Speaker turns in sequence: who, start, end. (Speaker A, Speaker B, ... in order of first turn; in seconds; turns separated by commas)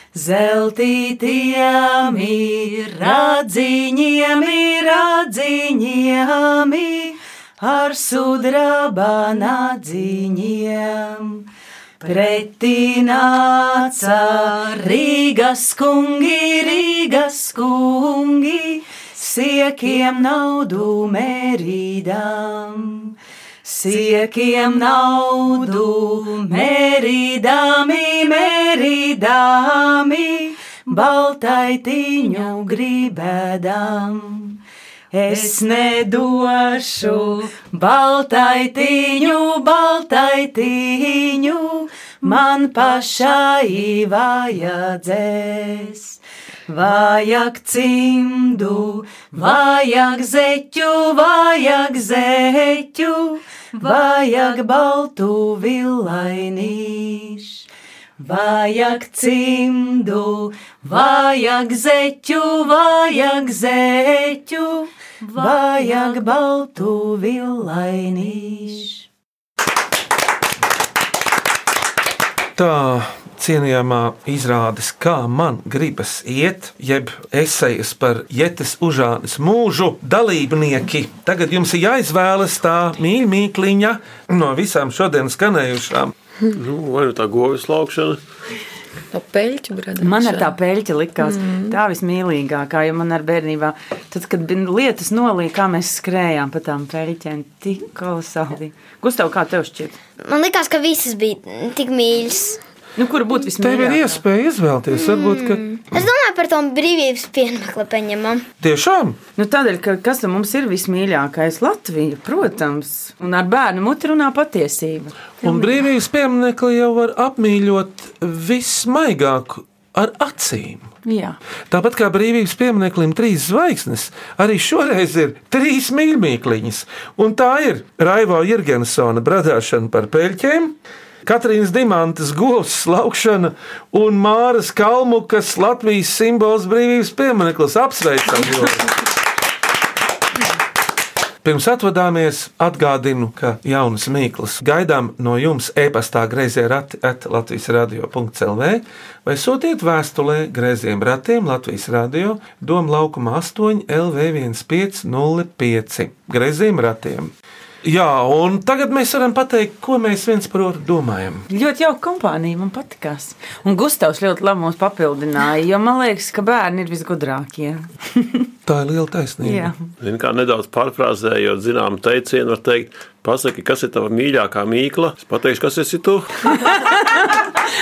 Speaker A: 0.1-11.5, Speaker A: 12.0-34.6, Speaker A: 35.1-57.6, Speaker A: 58.2-69.0, Speaker B: 72.6-86.1, Speaker C: 86.5-88.2, Speaker D: 89.1-90.5, Speaker E: 90.0-100.0, Speaker D: 91.2-91.8, Speaker F: 100.2-102.6, Speaker E: 103.0-104.2, Speaker B: 103.6-105.6, Speaker F: 105.0-108.5, Speaker B: 108.6-109.2, Speaker E: 109.4-115.8, Speaker B: 115.4-120.9, Speaker E: 121.0-121.4, Speaker B: 121.7-138.9, Speaker B: 141.4-157.3, Speaker B: 157.8-161.5, Speaker E: 161.5-168.4, Speaker B: 168.7-169.7, Speaker E: 169.4-169.7, Speaker C: 170.0-176.3